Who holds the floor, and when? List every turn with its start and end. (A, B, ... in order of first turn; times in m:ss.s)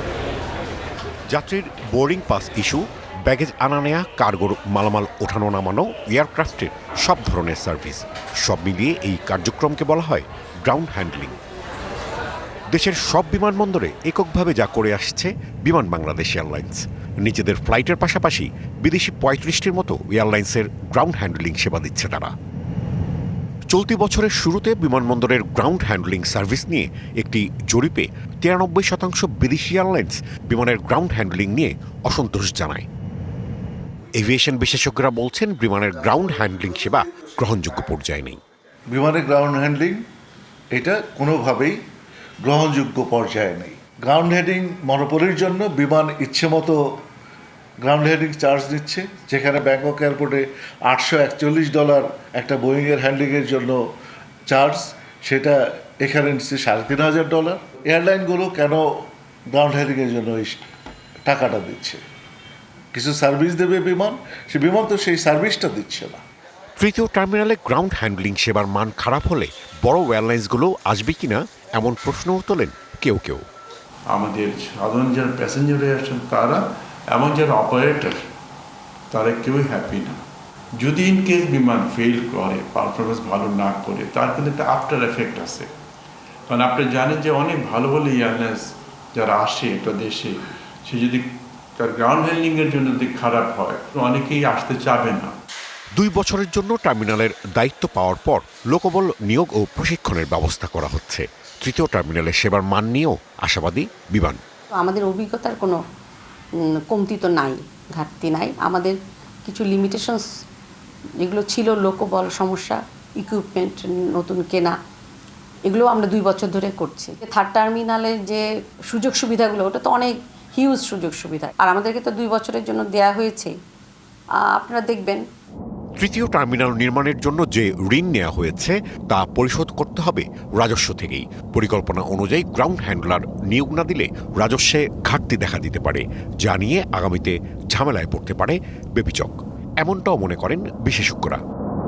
0:01.3-0:11.3 A
0:12.7-0:22.3 A
0:23.7-0:32.8 A
0:34.1-0:38.4 A
0:38.9-0:40.0 B
0:40.7-0:41.8 B
0:42.4-0:46.8 B
0:47.8-0:53.8 B
0:54.5-0:58.8 B
0:59.5-1:00.6 B
1:01.2-1:02.0 B
1:02.9-1:06.2 B
1:06.8-1:13.4 A
1:14.1-1:18.2 C
1:19.1-1:20.2 C
1:20.8-1:25.7 C
1:26.5-1:35.3 C
1:35.9-1:44.4 A
1:44.7-1:45.8 D
1:46.9-1:50.2 D
1:51.2-1:54.7 D
1:55.7-2:03.5 D
2:04.5-2:05.2 D
2:06.0-2:21.4 A